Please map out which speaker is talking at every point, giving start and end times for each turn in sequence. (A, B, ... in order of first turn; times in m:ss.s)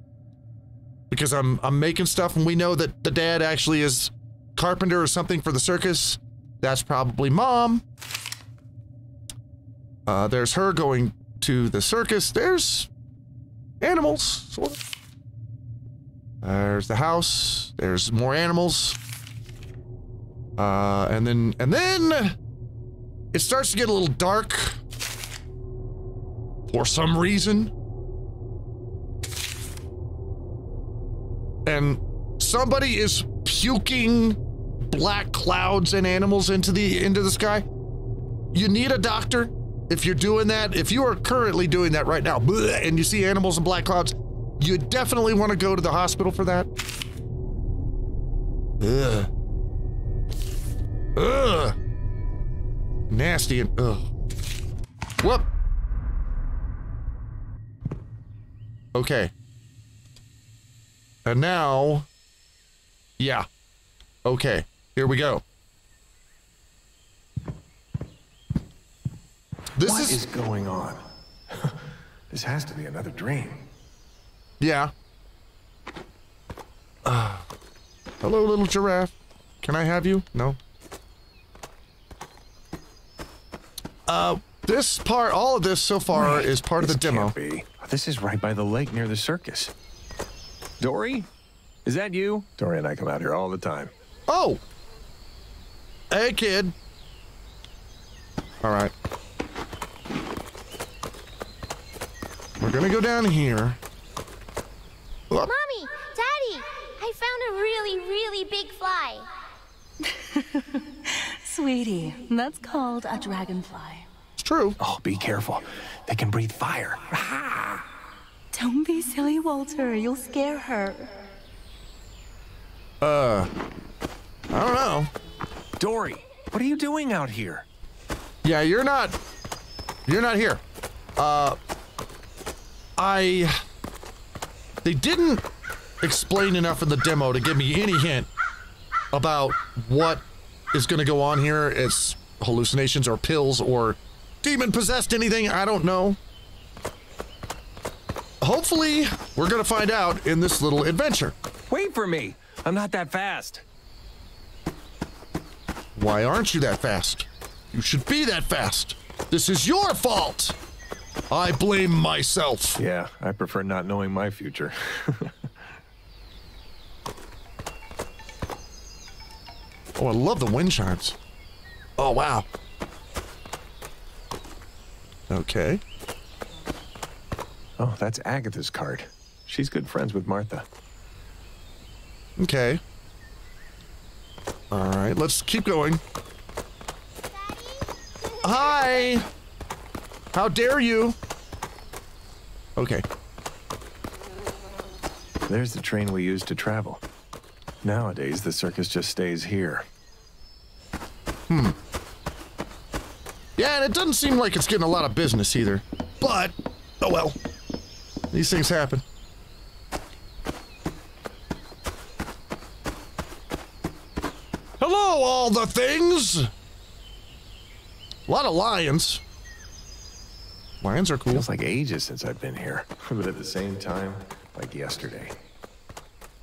0:01.1-0:07.8 A
0:10.1-0:12.9 A
0:13.8-0:14.8 A
0:16.4-0:19.0 A
0:20.6-0:22.4 A
0:23.3-0:24.8 A
0:26.7-0:27.7 A
0:31.7-0:37.6 A
0:38.5-0:46.7 A
0:48.8-0:49.3 A
0:51.2-0:51.8 A
0:53.1-0:54.0 A
0:55.2-0:55.5 A
0:58.9-0:59.3 A
1:01.2-1:02.1 A
1:03.2-1:03.5 A
1:04.2-1:05.4 A
1:09.8-1:10.2 A
1:09.8-1:13.7 B
1:14.6-1:14.9 A
1:17.0-1:17.5 A
1:18.2-1:20.6 A
1:24.1-1:27.4 A
1:26.1-1:29.7 B
1:30.8-1:31.3 B
1:31.8-1:33.9 B
1:34.3-1:34.6 A
1:36.1-1:36.8 A
1:38.6-1:38.9 A
1:42.6-1:43.8 A
1:45.5-1:49.3 C
1:50.1-1:54.1 D
1:54.4-1:54.8 A
1:54.8-1:57.8 B
1:58.5-2:01.1 D
2:03.0-2:03.5 A
2:04.5-2:05.1 A
2:05.8-2:07.7 B
2:08.4-2:09.2 A
2:10.1-2:10.6 A
2:11.2-2:11.6 A
2:13.0-2:13.6 A
2:14.8-2:15.4 A
2:16.0-2:18.3 A
2:19.1-2:26.2 A
2:28.4-2:31.4 A
2:31.7-2:33.6 B
2:36.0-2:40.6 A
2:41.3-2:42.8 A
2:42.8-2:45.8 B
2:50.0-2:51.2 A
2:52.0-2:52.5 A
2:55.3-2:55.8 A
2:57.8-3:00.7 B
3:02.4-3:02.8 A
3:04.7-3:06.0 A
3:07.3-3:08.9 C
3:08.4-3:09.3 A
3:10.3-3:11.2 A
3:12.8-3:13.0 A
3:15.5-3:17.0 B
3:17.8-3:19.9 B
3:21.5-3:21.8 A
3:23.6-3:27.4 A
3:28.3-3:29.0 A
3:34.8-3:36.5 A
3:38.3-3:39.2 A
3:40.8-3:41.5 A
3:41.3-3:45.4 B